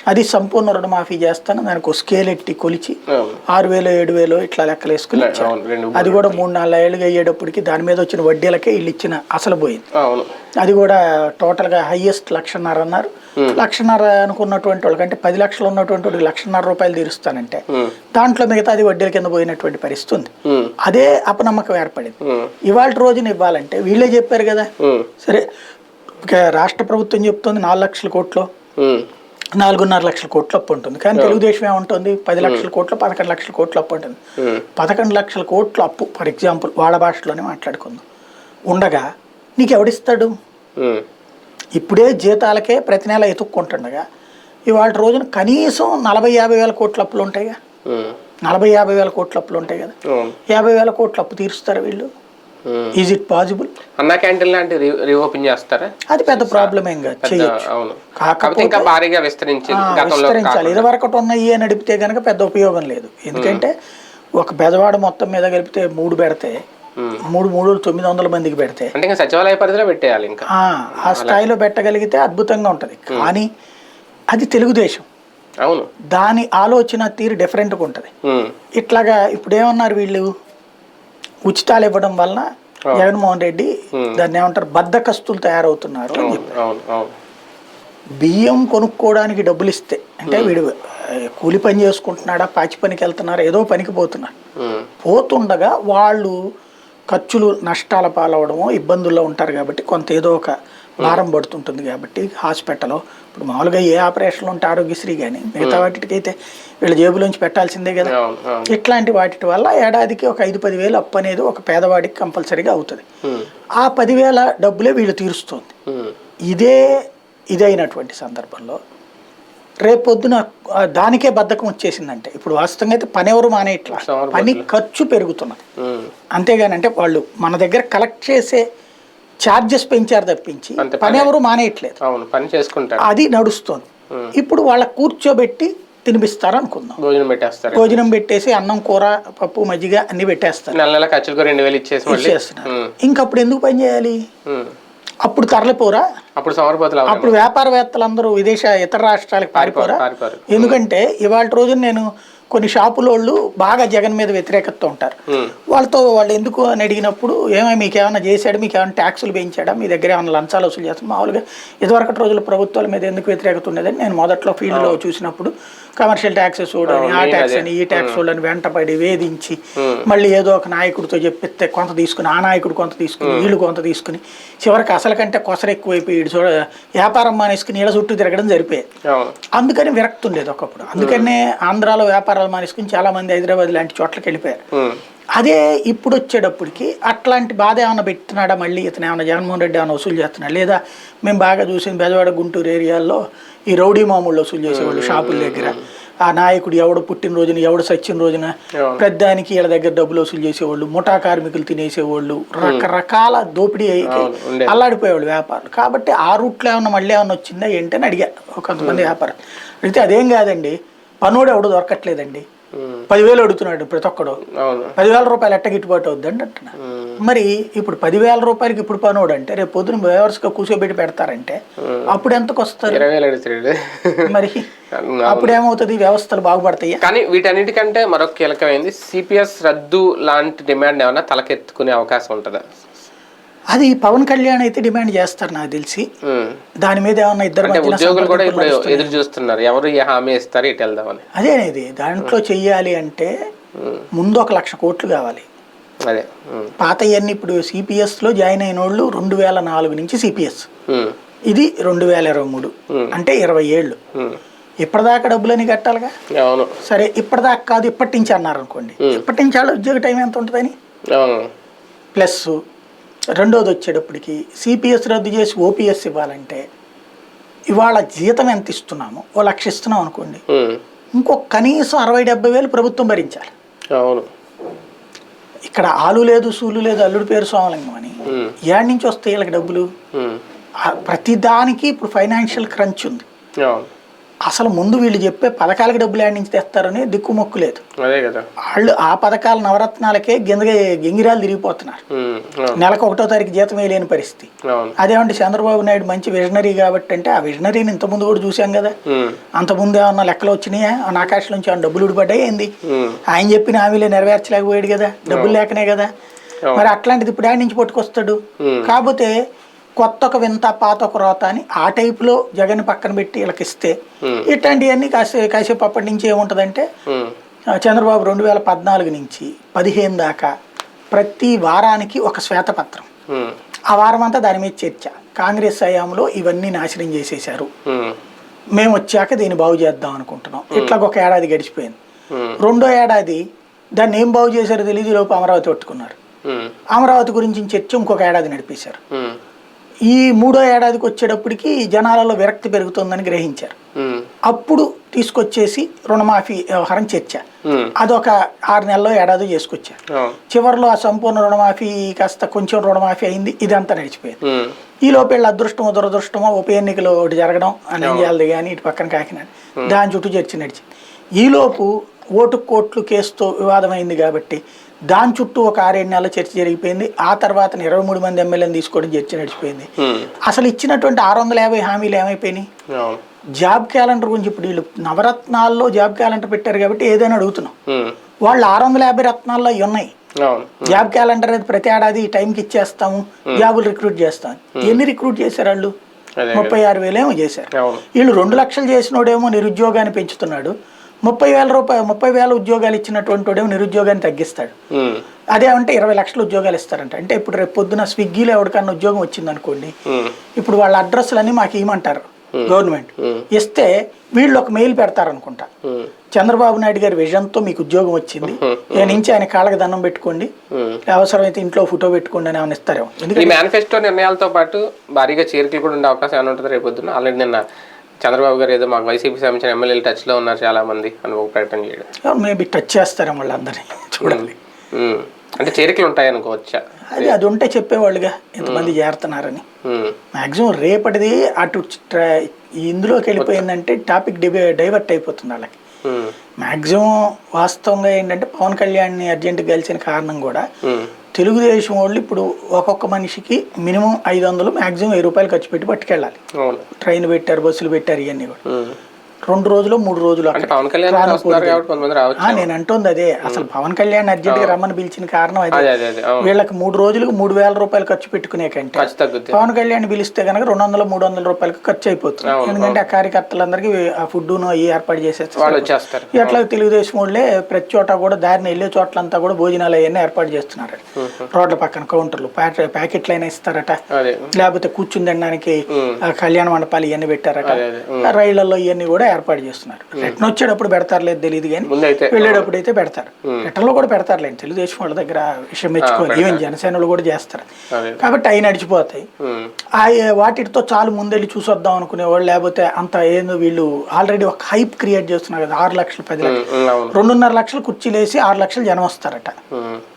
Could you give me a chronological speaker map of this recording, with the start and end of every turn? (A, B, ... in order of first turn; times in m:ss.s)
0:00.1-0:03.0 A
0:03.1-0:03.4 B
0:03.5-0:09.8 A
0:05.1-0:06.4 B
0:09.9-0:10.3 B
0:10.6-0:17.6 A
0:18.2-0:20.3 A
0:20.4-0:20.7 B
0:20.8-0:24.7 A
0:22.2-0:22.5 B
0:24.8-0:25.1 B
0:26.2-0:28.5 A
0:28.8-0:29.1 B
0:29.6-0:34.2 A
0:31.2-0:31.4 B
0:32.4-0:32.7 B
0:34.4-0:34.6 B
0:34.8-0:38.0 A
0:38.7-0:39.1 A
0:39.6-0:40.3 A
0:40.8-0:41.0 B
0:41.8-0:44.0 A
0:44.7-0:47.6 A
0:47.9-0:48.2 B
0:48.5-0:50.0 A
0:50.1-0:50.4 B
0:50.5-0:52.1 A
0:52.7-0:52.9 B
0:53.0-0:53.7 A
0:54.0-1:00.9 B
0:56.1-0:57.6 A
0:58.2-0:58.9 A
0:59.7-1:03.7 A
1:03.4-1:03.7 B
1:04.4-1:06.6 A
1:07.3-1:08.9 A
1:08.9-1:10.5 B
1:10.5-1:13.5 A
1:11.0-1:11.4 B
1:14.3-1:15.1 A
1:15.6-1:15.9 B
1:16.1-1:18.1 A
1:18.2-1:18.5 B
1:18.8-1:20.3 A
1:21.5-1:26.5 A
1:23.9-1:24.2 B
1:26.2-1:27.1 B
1:28.2-1:34.3 A
1:30.3-1:30.6 B
1:34.6-1:34.9 B
1:35.0-1:36.4 A
1:37.1-1:48.1 A
1:45.6-1:45.9 B
1:48.0-1:48.7 B
1:48.7-1:53.0 A
1:53.2-1:53.5 B
1:53.8-1:55.7 A
1:55.9-1:56.2 B
1:56.5-1:57.0 A
1:57.5-1:58.8 A
1:59.8-2:05.6 A
2:03.9-2:04.7 B
2:05.8-2:06.1 B
2:06.3-2:08.6 A
2:09.4-2:12.0 A
2:10.8-2:11.3 B
2:12.0-2:13.0 B
2:13.0-2:17.0 A
2:17.0-2:18.0 B
2:17.7-2:20.8 A
2:20.7-2:22.9 B
2:22.1-2:24.2 A
2:24.5-2:24.7 B
2:25.2-2:26.0 A
2:26.4-2:27.4 B
2:27.1-2:35.2 A
2:29.6-2:30.8 B
2:35.7-2:58.8 A
2:44.7-2:45.0 B
2:46.9-2:48.2 B
2:49.8-2:50.0 B
2:53.2-2:53.5 B
2:59.0-2:59.4 B
2:59.5-3:04.6 A
3:01.0-3:01.3 B
3:04.7-3:05.0 B
3:05.4-3:32.4 A
3:14.7-3:15.8 B
3:22.6-3:22.9 B
3:24.1-3:24.8 B
3:28.8-3:29.1 B
3:32.7-3:33.1 B
3:33.1-3:34.4 A
3:34.4-3:35.0 B
3:35.0-3:43.1 A
3:36.8-3:37.2 B
3:41.8-3:42.1 B
3:42.9-3:44.4 B
3:44.2-3:44.7 A
3:44.9-3:45.6 B
3:45.3-3:47.0 A
3:47.0-3:52.6 B
3:53.7-3:56.1 A
3:56.2-3:56.6 B
3:56.8-3:59.2 A
3:57.6-4:01.2 B
4:01.4-4:03.3 A
4:03.8-4:04.1 B
4:04.2-4:05.5 A
4:06.0-4:06.7 B
4:06.8-4:10.7 A
4:10.9-4:11.2 B
4:11.5-4:14.0 A
4:12.9-4:13.2 B
4:14.2-4:14.4 B
4:14.8-4:16.1 A
4:16.3-4:16.7 B
4:16.8-4:20.7 A
4:21.1-4:21.5 B
4:22.2-4:22.6 A
4:23.4-4:26.6 A
4:27.7-4:30.4 A
4:30.5-4:30.8 B
4:31.2-4:33.5 A
4:33.9-4:34.3 B
4:35.7-4:38.2 A
4:38.3-4:38.6 B
4:38.7-4:39.9 A
4:40.1-4:40.4 B
4:40.8-4:43.2 A
4:43.6-4:43.9 B
4:44.5-4:47.8 A
4:48.0-4:48.5 B
4:48.7-4:52.0 A
4:52.1-4:52.8 B
4:52.8-4:58.9 A
4:54.6-4:54.9 B
4:59.1-4:59.4 B
4:59.6-5:02.7 A
5:02.8-5:03.2 B
5:03.3-5:06.1 A
5:05.3-5:05.6 B
5:06.8-5:09.3 A
5:08.6-5:08.9 B
5:10.0-5:13.9 A
5:14.2-5:14.5 B
5:14.5-5:16.9 A
5:17.1-5:17.3 B
5:17.8-5:20.5 A
5:21.1-5:23.1 A
5:23.3-5:23.6 B
5:23.9-5:27.7 A
5:27.9-5:28.2 B
5:28.8-5:32.0 A
5:30.7-5:31.0 B
5:32.3-5:32.6 B
5:32.6-5:33.4 A
5:34.0-5:36.2 A
5:36.4-5:36.7 B
5:36.9-5:39.0 A
5:39.1-5:39.4 B
5:40.1-5:43.8 A
5:44.0-5:44.3 B
5:44.5-5:47.4 A
5:47.6-5:47.9 B
5:48.0-5:54.4 A
5:50.1-5:50.4 B
5:54.4-5:54.8 B
5:55.0-6:00.8 A
5:58.0-5:58.3 B
6:01.4-6:04.6 A
6:05.1-6:09.9 A
6:10.0-6:10.3 B
6:10.5-6:12.7 A
6:12.9-6:13.2 B
6:13.6-6:17.7 A
6:17.9-6:18.2 B
6:18.5-6:20.1 A
6:20.4-6:21.0 B
6:20.8-6:25.9 A
6:26.4-6:26.8 B
6:26.5-6:30.7 A
6:27.8-6:28.0 B
6:31.2-6:34.8 A
6:34.9-6:35.2 B
6:35.5-6:39.9 A
6:40.1-6:40.4 B
6:40.6-6:45.7 A
6:42.5-6:43.5 B
6:45.8-6:46.1 B
6:46.3-6:50.5 A
6:48.4-6:49.2 B
6:50.7-6:51.0 B
6:51.1-6:53.6 A
6:53.3-6:57.6 B
6:58.2-7:02.1 B
7:02.2-7:04.6 A
7:04.2-7:07.4 B
7:07.1-7:09.6 A
7:08.6-7:09.0 B
7:09.8-7:10.2 B
7:10.3-7:15.8 A
7:13.4-7:13.6 B
7:16.0-7:16.4 B
7:16.6-7:20.6 A
7:20.8-7:21.1 B
7:21.4-7:26.4 A
7:26.6-7:26.9 B
7:27.0-7:28.6 A
7:28.7-7:29.0 B
7:29.5-7:31.8 A
7:30.6-7:32.7 B
7:32.4-7:54.0 A
7:34.5-7:34.8 B
7:35.7-7:36.5 B
7:39.0-7:39.6 B
7:42.4-7:43.0 B
7:45.6-7:46.6 B
7:51.2-7:51.5 B
7:54.1-7:54.5 B
7:54.5-8:07.7 A
7:55.9-7:56.2 B
7:57.6-7:58.3 B
8:01.9-8:02.7 B
8:06.0-8:06.6 B
8:07.9-8:08.3 B
8:08.2-8:09.3 A
8:09.4-8:09.7 B
8:10.0-8:16.6 A
8:16.4-8:17.2 B
8:17.1-8:19.6 A
8:19.7-8:20.0 B